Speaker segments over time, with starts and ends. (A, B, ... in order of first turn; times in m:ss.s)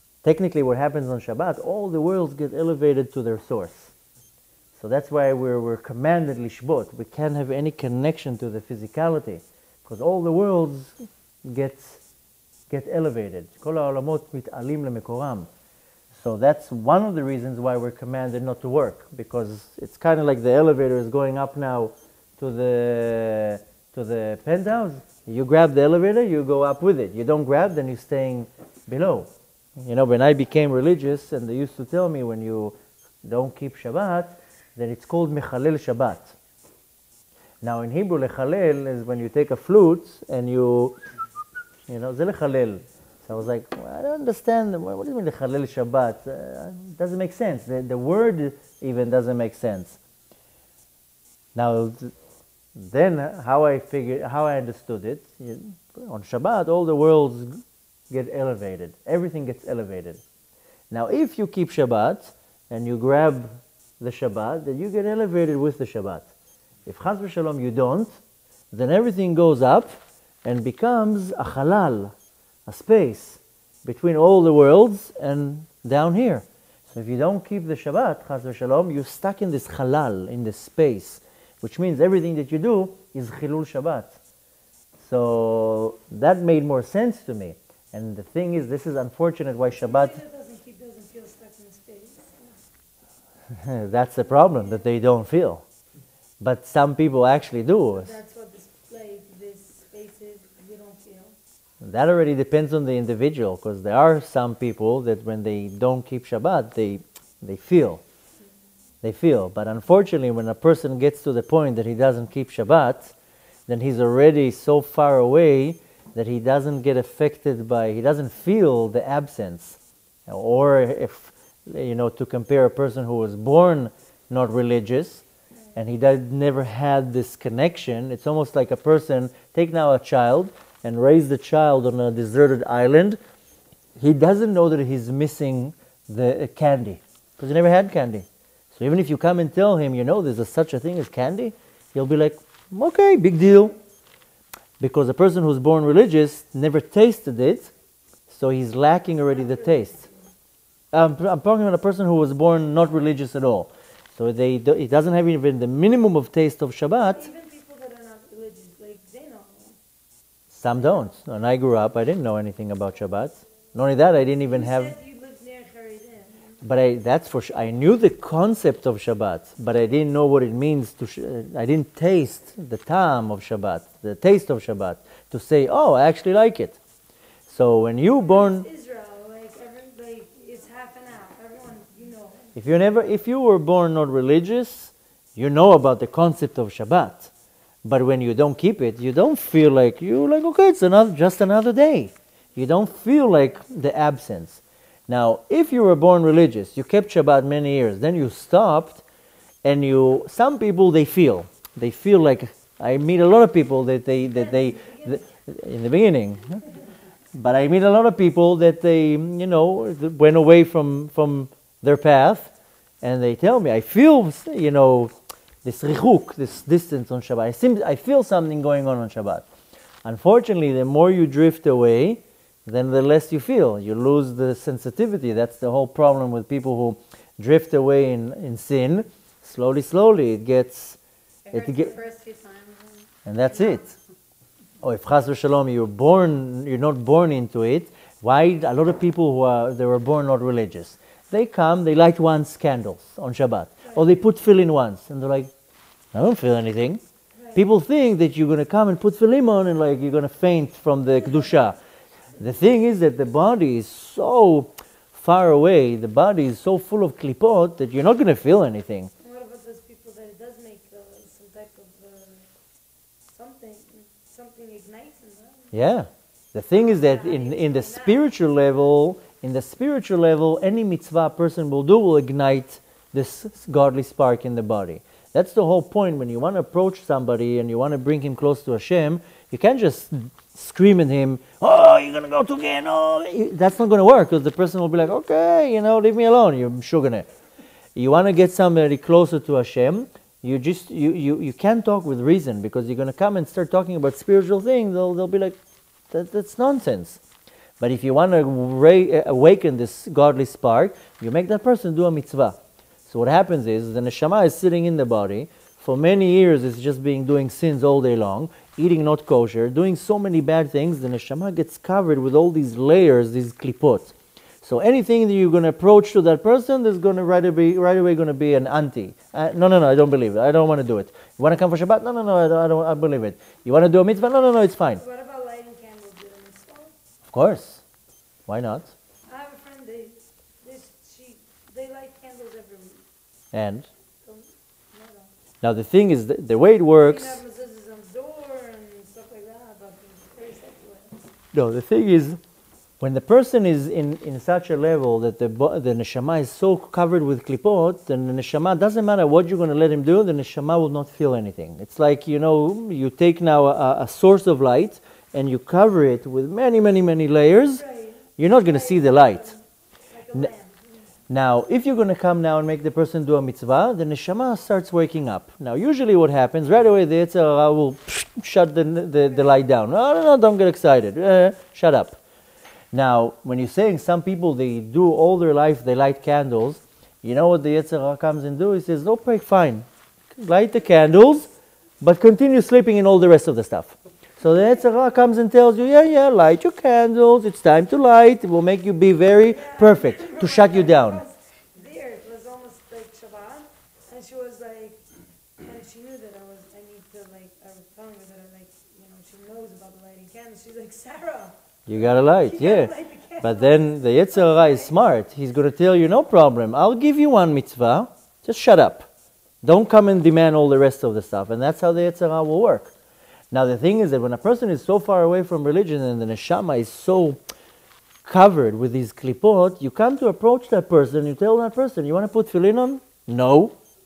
0:00.2-0:03.9 A
0:04.8-0:11.0 A
0:11.5-0:12.0 A
0:12.7-0:15.5 A
0:16.1-0:29.3 A
0:29.8-0:36.4 A
0:37.6-0:41.0 A
0:41.9-0:50.0 A
0:51.6-0:52.1 A
0:52.8-0:57.6 A
0:58.1-1:00.2 A
1:00.9-1:06.3 A
1:06.9-1:08.1 A
1:08.7-1:12.1 A
1:12.7-1:24.2 A
1:25.0-1:30.2 A
1:29.7-1:32.6 B
1:33.5-1:35.6 A
1:36.4-1:38.2 A
1:37.9-1:41.4 B
1:41.8-1:48.0 A
1:49.0-1:53.1 A
1:53.7-2:05.2 A
2:05.8-2:13.2 A
2:14.0-2:23.8 A
2:24.8-2:27.7 A
2:28.3-2:30.0 A
2:29.3-2:30.2 B
2:30.9-2:37.3 A
2:37.0-2:39.8 B
2:40.5-2:45.0 A
2:40.8-2:41.1 B
2:44.5-2:46.6 B
2:46.6-2:56.8 A
2:57.5-2:58.7 A
2:58.0-3:02.6 B
3:02.6-3:07.3 A
3:07.8-3:19.0 A
3:19.6-3:26.6 A
3:24.2-3:25.2 B
3:27.3-3:32.5 A
3:33.0-3:35.1 A
3:35.6-3:39.5 A
3:40.0-3:51.0 A
3:51.5-3:54.0 C
3:51.5-3:51.9 A
3:53.3-3:53.9 A
3:54.8-4:05.5 A
4:03.8-4:04.2 B
4:06.1-4:07.0 A
4:07.3-4:07.6 B
4:07.5-4:11.8 A
4:11.3-4:11.6 B
4:12.4-4:19.1 A
4:19.2-4:22.5 B
4:23.3-4:25.8 B
4:25.7-4:47.3 A
4:26.7-4:28.4 B
4:48.0-4:55.6 A
4:56.1-4:57.2 A
4:57.8-5:25.0 A
5:24.9-5:26.9 B
5:27.3-5:27.8 A
5:28.5-5:28.9 A
5:29.3-5:33.1 B
5:33.5-5:33.9 A
5:34.2-5:35.3 B
5:35.6-5:37.4 A
5:37.0-5:41.3 B
5:41.5-5:42.4 A
5:43.0-5:57.8 A
5:57.7-6:01.1 B
5:58.4-5:59.5 A
6:01.3-6:12.2 A
6:12.9-6:31.2 A
6:29.3-6:35.0 B
6:35.6-6:41.6 B
6:41.9-6:49.1 A
6:42.2-6:45.0 B
6:49.6-6:52.9 A
6:53.5-6:57.4 A
6:58.2-7:03.8 A